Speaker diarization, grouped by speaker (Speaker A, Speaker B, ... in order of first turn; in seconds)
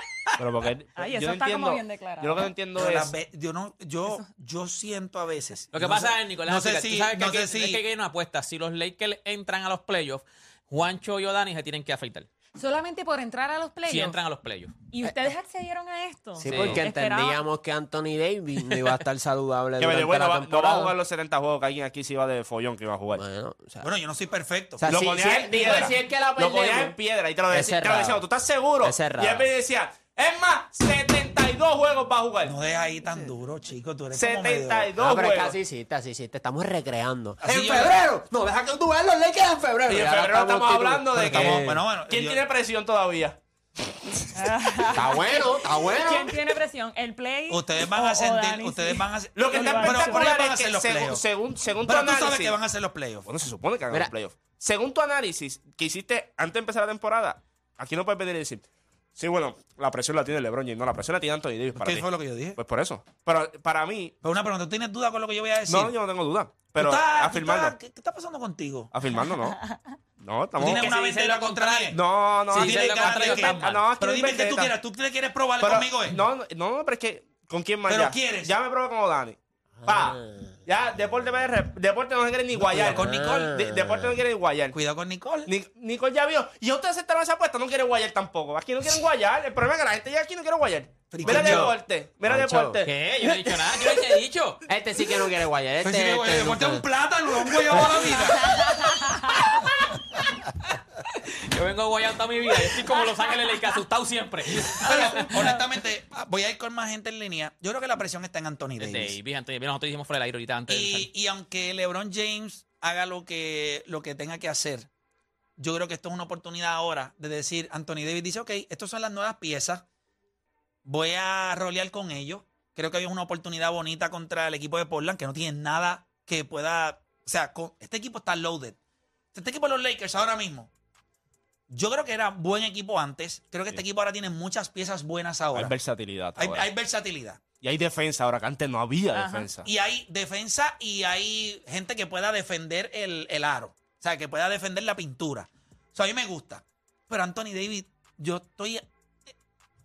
Speaker A: 0.4-3.1, 19.8-23.2, 24.8-32.6, 34.1-35.6, 39.9-43.4, 49.3-52.7, 53.3-58.6, 59.2-64.1, 65.7-67.8, 68.9-70.8, 71.9-74.8, 75.6-84.8, 85.5-94.0, 135.5-136.7, 137.5-139.7
Speaker B: 1.0-2.5, 12.6-14.2, 14.9-17.4, 44.3-50.3, 104.8-105.6, 139.1-139.5
Speaker C: 2.8-7.8, 23.8-24.8, 32.5-34.9, 37.4-38.0, 41.1-42.5, 47.5-51.2, 51.9-53.3, 61.8-62.6, 64.2-65.9, 66.7-68.9, 70.6-72.0, 72.5-76.2, 77.9-78.5, 82.6-83.5, 84.7-85.5, 91.1-91.8, 95.8-98.7, 104.8-109.2, 110.7-114.9, 115.6-119.9, 120.9-128.8, 129.3-130.7, 131.7-135.8, 136.4-137.4, 139.6-148.9
Speaker D: 5.7-12.3, 13.9-14.7, 16.4-16.8, 70.6-72.0, 72.5-73.8, 92.8-94.6, 101.2-105.5, 108.8-111.1
Speaker E: 16.4-20.9, 23.1-23.9, 24.8-27.0, 27.5-28.3, 28.8-29.5, 35.0-41.8, 44.9-46.4, 79.8-80.6, 82.9-84.2, 92.3-92.9, 94.7-96.9